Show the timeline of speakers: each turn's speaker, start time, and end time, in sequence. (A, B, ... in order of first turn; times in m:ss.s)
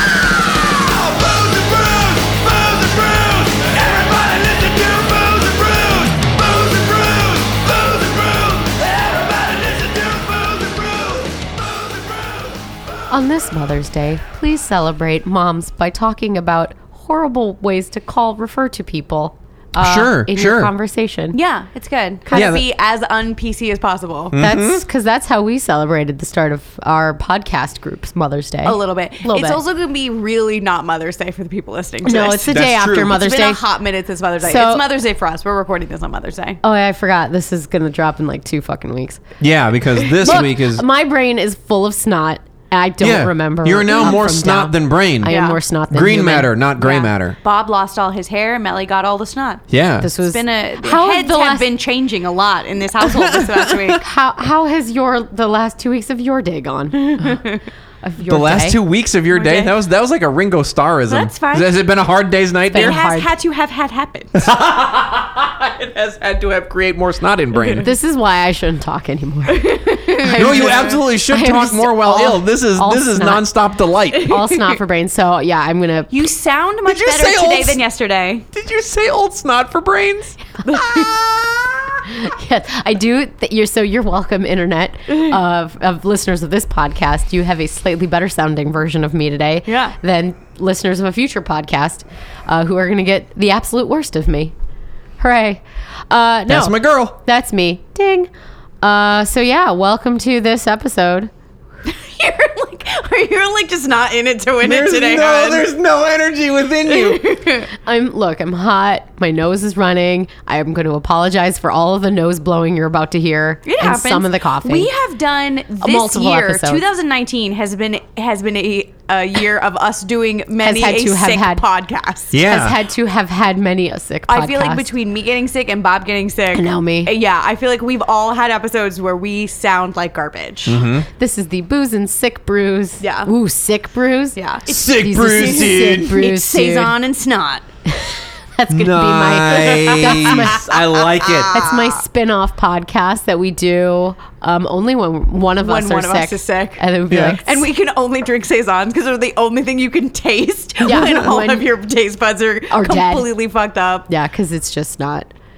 0:00.8-0:07.4 A
0:13.1-0:21.4 B
0:19.8-0:20.7 A
0:21.3-0:24.3 C
0:22.3-0:22.6 A
0:24.3-0:24.8 A
0:24.4-0:29.6 B
0:28.6-0:36.6 C
0:32.0-0:33.6 B
0:32.5-0:33.2 A
0:34.4-0:34.9 B
0:36.6-0:39.2 B
0:39.4-0:40.8 A
0:40.2-0:40.5 C
0:40.2-0:46.5 B
0:43.0-0:45.3 A
0:45.2-0:45.6 C
0:45.9-0:47.4 A
0:46.8-0:49.6 C
0:49.7-0:50.1 A
0:50.0-0:51.7 B
0:50.2-0:54.0 C
0:53.3-0:53.9 A
0:53.9-0:57.4 B
0:57.0-0:57.6 C
0:58.0-0:58.8 B
0:58.2-1:03.0 A
0:59.3-0:59.7 C
1:01.1-1:01.8 C
1:02.7-1:03.3 B
1:02.7-1:04.4 C
1:04.3-1:07.9 A
1:07.8-1:13.5 B
1:09.5-1:10.8 C
1:10.3-1:14.3 A
1:14.2-1:16.3 B
1:16.1-1:18.4 C
1:16.9-1:17.8 A
1:18.5-1:21.9 A
1:20.6-1:21.1 C
1:22.2-1:34.5 B
1:25.1-1:25.3 C
1:29.6-1:29.9 C
1:35.2-1:38.3 B
1:36.5-1:37.2 A
1:38.8-1:41.3 B
1:41.8-1:45.7 C
1:44.6-1:47.2 A
1:46.9-1:47.7 C
1:47.8-1:54.9 B
1:53.6-2:02.3 C
1:55.8-1:56.8 B
2:00.6-2:01.6 B
2:02.3-2:02.8 A
2:02.3-2:04.8 B
2:04.3-2:10.8 C
2:06.5-2:07.1 B
2:10.6-2:11.1 A
2:11.2-2:16.9 B
2:13.0-2:13.3 C
2:14.4-2:17.6 C
2:14.7-2:16.1 A
2:17.9-2:20.6 B
2:18.7-2:21.6 A
2:19.6-2:22.0 C
2:21.4-2:27.6 B
2:25.6-2:26.9 C
2:27.1-2:27.4 A
2:27.4-2:34.1 C
2:30.8-2:31.7 B
2:32.7-2:33.3 B
2:34.1-2:35.3 B